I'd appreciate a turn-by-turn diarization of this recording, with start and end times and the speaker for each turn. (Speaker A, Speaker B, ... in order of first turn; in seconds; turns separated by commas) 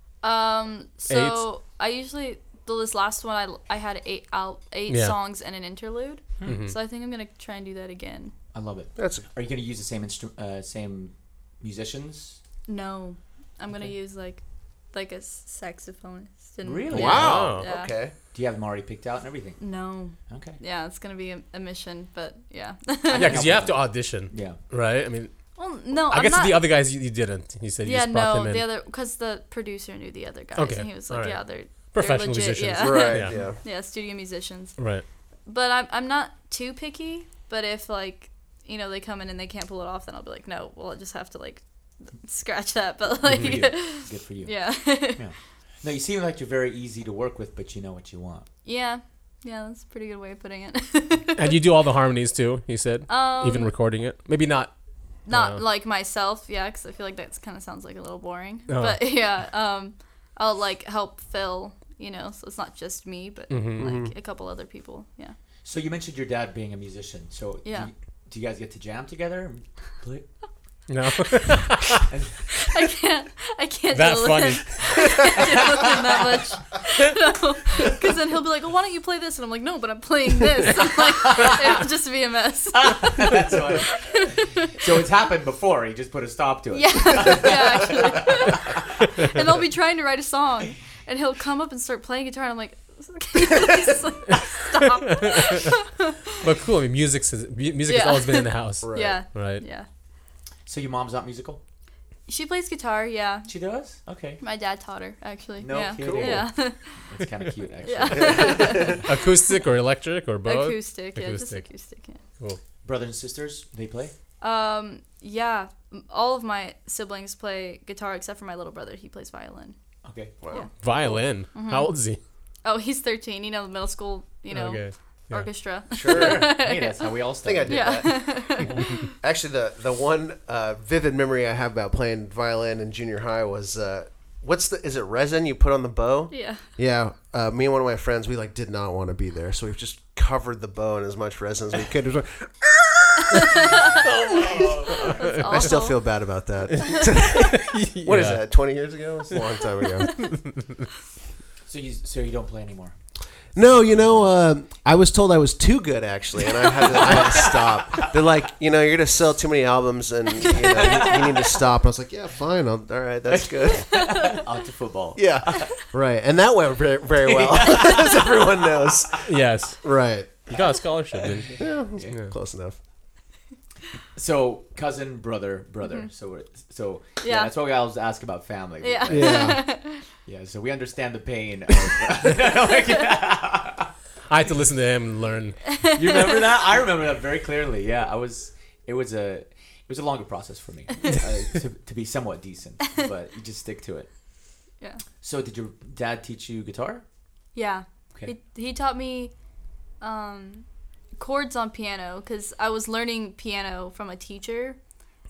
Speaker A: 0.2-8.3, Speaker B: 1.1-1.4, Speaker B: 4.9-5.2, Speaker B: 6.4-6.7, Speaker C: 8.5-12.4, Speaker D: 8.9-9.2, Speaker A: 12.7-17.9, Speaker C: 16.6-17.5, Speaker D: 16.9-18.1, Speaker B: 17.0-17.6, Speaker C: 18.3-19.6, Speaker A: 19.6-23.4, Speaker C: 20.3-20.6, Speaker C: 23.1-24.6, Speaker B: 23.2-25.3, Speaker A: 25.6-26.6, Speaker B: 26.1-28.6, Speaker A: 27.8-34.8, Speaker B: 30.5-33.4, Speaker D: 32.8-33.6, Speaker B: 34.8-35.0, Speaker A: 35.5-45.2, Speaker C: 43.2-48.5, Speaker A: 48.6-51.6, Speaker B: 51.4-54.7, Speaker A: 53.1-53.7, Speaker A: 55.3-65.3, Speaker B: 55.3-55.6, Speaker B: 58.7-59.0, Speaker B: 63.5-63.9, Speaker D: 63.8-64.1, Speaker C: 65.6-70.2, Speaker A: 67.6-67.9, Speaker B: 70.9-72.1, Speaker C: 72.1-72.4, Speaker A: 72.5-84.7, Speaker B: 73.9-75.6, Speaker C: 82.8-88.9, Speaker A: 86.7-96.4, Speaker B: 95.1-95.7, Speaker B: 96.4-99.6, Speaker A: 97.9-99.9, Speaker D: 98.8-99.2, Speaker C: 100.7-101.6, Speaker A: 102.3-103.5, Speaker C: 103.5-104.4, Speaker A: 104.4-107.0, Speaker C: 105.6-106.5, Speaker D: 106.0-106.4, Speaker C: 107.0-109.0, Speaker A: 107.8-109.6, Speaker D: 108.1-109.0, Speaker B: 109.0-111.6, Speaker A: 110.4-112.2, Speaker C: 112.8-114.1, Speaker A: 114.4-119.8, Speaker C: 120.0-120.4, Speaker D: 120.4-121.2, Speaker B: 120.8-122.2, Speaker A: 121.5-121.9, Speaker A: 122.6-129.1, Speaker B: 124.5-125.5, Speaker D: 125.9-126.5, Speaker C: 126.0-128.1, Speaker D: 127.4-143.7, Speaker A: 136.3-136.6, Speaker A: 143.3-144.0, Speaker B: 144.0-145.8, Speaker D: 144.6-150.1, Speaker A: 144.9-146.0, Speaker B: 146.7-148.4, Speaker B: 149.3-150.9, Speaker C: 151.7-152.9, Speaker D: 153.5-164.1, Speaker C: 154.0-154.3, Speaker C: 156.7-158.1, Speaker C: 160.4-161.6, Speaker C: 163.3-165.7, Speaker A: 163.9-164.4, Speaker D: 165.2-169.2, Speaker C: 167.2-169.2, Speaker B: 169.2-169.8, Speaker D: 169.8-170.4, Speaker B: 170.5-172.3, Speaker C: 171.1-172.2, Speaker D: 171.6-172.8, Speaker C: 174.2-179.6, Speaker A: 177.2-177.5, Speaker A: 178.8-180.1, Speaker D: 179.1-179.6, Speaker C: 180.2-183.9, Speaker B: 184.3-185.6, Speaker A: 185.7-186.4, Speaker C: 185.9-194.1, Speaker C: 195.2-197.0, Speaker A: 197.5-199.3, Speaker A: 200.0-200.7, Speaker A: 201.2-204.8